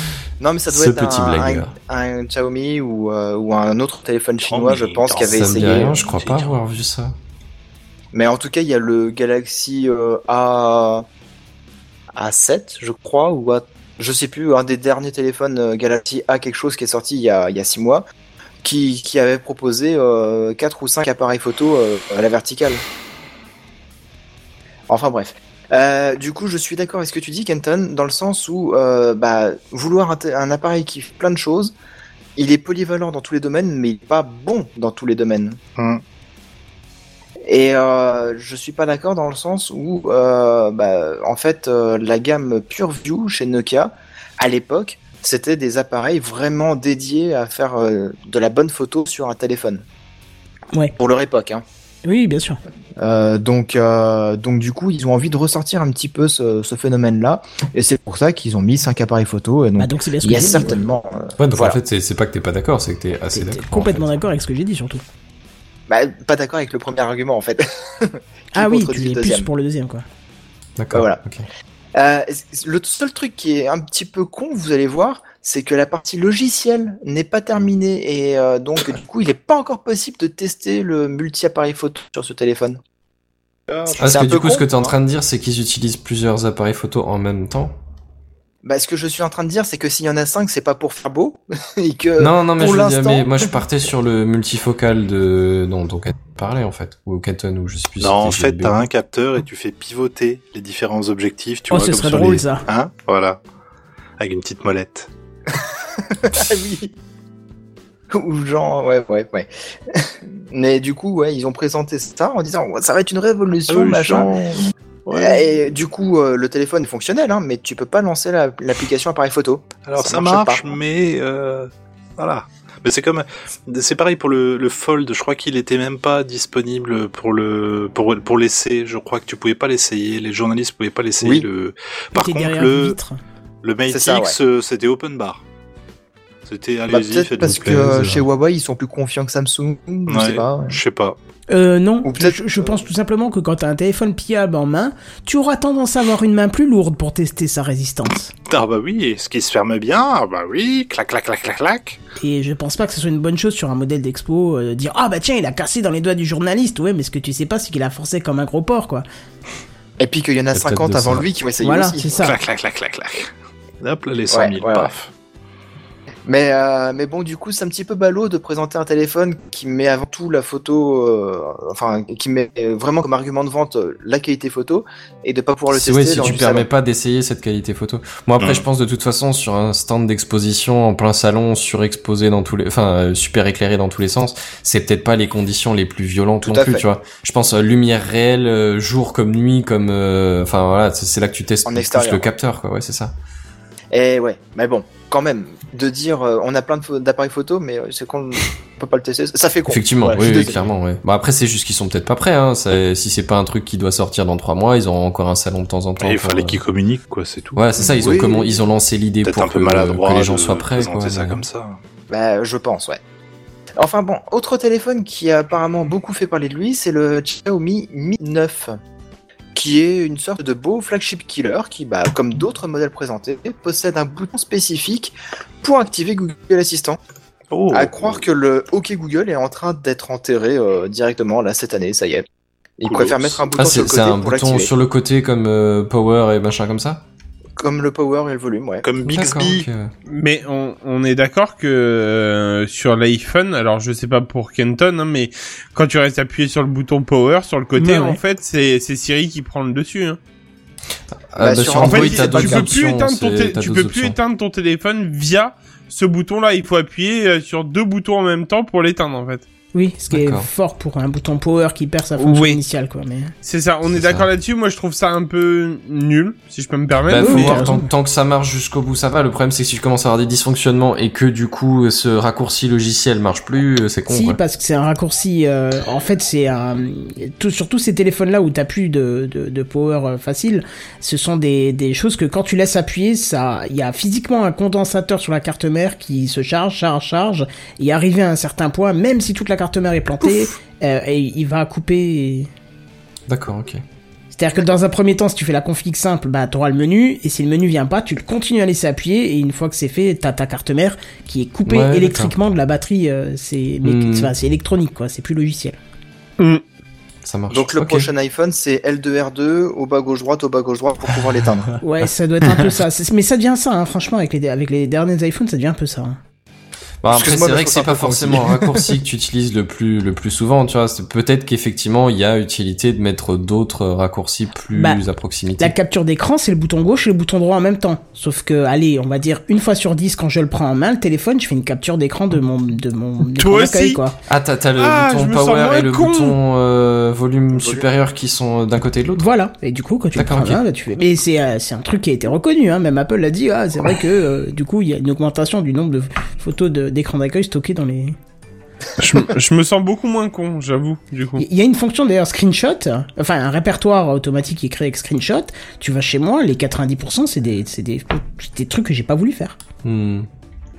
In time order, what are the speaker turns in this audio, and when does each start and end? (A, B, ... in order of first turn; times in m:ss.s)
0:00.4-0:06.0 A
0:00.7-0:01.7 B
0:04.5-0:06.6 C
0:05.3-0:07.1 B
0:08.1-0:11.0 A
0:12.1-0:18.0 A
0:18.6-0:22.8 A
0:24.9-0:31.7 A
0:32.4-0:35.6 A
0:35.8-0:36.0 C
0:37.4-0:49.8 A
0:51.0-0:51.6 A
0:52.0-0:52.6 D
0:53.0-1:01.8 A
0:59.8-1:00.8 D
1:01.4-1:04.1 B
1:03.3-1:05.0 D
1:05.9-1:09.5 A
1:08.5-1:10.0 D
1:10.8-1:11.5 B
1:10.9-1:11.2 A
1:11.9-1:22.8 A
1:23.7-1:24.1 C
1:23.9-1:24.7 A
1:24.0-1:27.7 B
1:28.6-1:33.6 A
1:32.2-1:38.8 B
1:38.0-1:43.4 C
1:41.7-1:42.6 D
1:44.2-1:45.1 C
1:45.6-1:46.9 A
1:48.1-1:54.3 A
1:53.7-1:55.4 C
1:55.1-2:00.8 A
1:59.8-2:13.0 C
2:11.2-2:11.4 A
2:12.1-2:13.2 D
2:13.6-2:15.4 C
2:13.9-2:14.4 A
2:16.4-2:18.2 C
2:16.9-2:20.8 A
2:20.1-2:21.2 C
2:21.5-2:28.3 D
2:22.0-2:22.8 A
2:28.5-2:32.0 C
2:32.2-2:39.0 D
2:40.0-2:42.1 A
2:40.5-2:41.3 B
2:41.6-2:42.4 D
2:42.2-2:43.3 C
2:43.8-2:45.1 C
2:44.3-2:44.9 A
2:46.2-2:56.7 A
2:55.7-3:13.1 B
2:58.4-2:58.6 C
3:06.4-3:06.8 A
3:11.6-3:12.3 A
3:13.9-3:20.7 A
3:19.7-3:26.6 B
3:26.0-3:28.2 C
3:27.6-3:31.4 B
3:27.9-3:28.6 A
3:29.2-3:31.8 C
3:32.1-3:33.0 A
3:33.8-3:38.8 A
3:39.5-3:47.0 A
3:47.5-3:48.2 C
3:47.7-3:52.2 A
3:52.8-3:54.7 A
3:52.8-3:53.4 C
3:53.6-3:57.0 B
3:57.6-3:58.8 A
3:58.8-3:59.6 C
3:59.0-3:59.9 B
4:00.1-4:10.2 E
4:11.3-4:14.2 B
4:11.4-4:12.7 A
4:11.7-4:19.4 E
4:19.7-4:23.3 D
4:20.1-4:20.5 B
4:22.2-4:22.6 E
4:23.4-4:27.7 E
4:23.9-4:24.3 B
4:27.1-4:34.4 B
4:27.2-4:27.9 D
4:34.1-4:52.5 D
4:53.3-4:53.8 B
4:54.3-5:05.8 D
5:01.7-5:02.3 B
5:03.8-5:04.3 B
5:07.2-5:08.1 B
5:07.5-5:11.8 A
5:11.8-5:16.2 D
5:17.0-5:25.7 B
5:17.1-5:18.9 A
5:24.7-5:25.0 D
5:25.6-5:34.2 D
5:33.3-5:34.0 E
5:34.3-5:39.3 B
5:34.8-5:36.4 E
5:37.5-5:37.9 A
5:39.2-5:48.2 D
5:40.1-5:40.6 B
5:49.0-5:51.4 E
5:51.4-5:59.6 D
5:59.8-6:00.3 B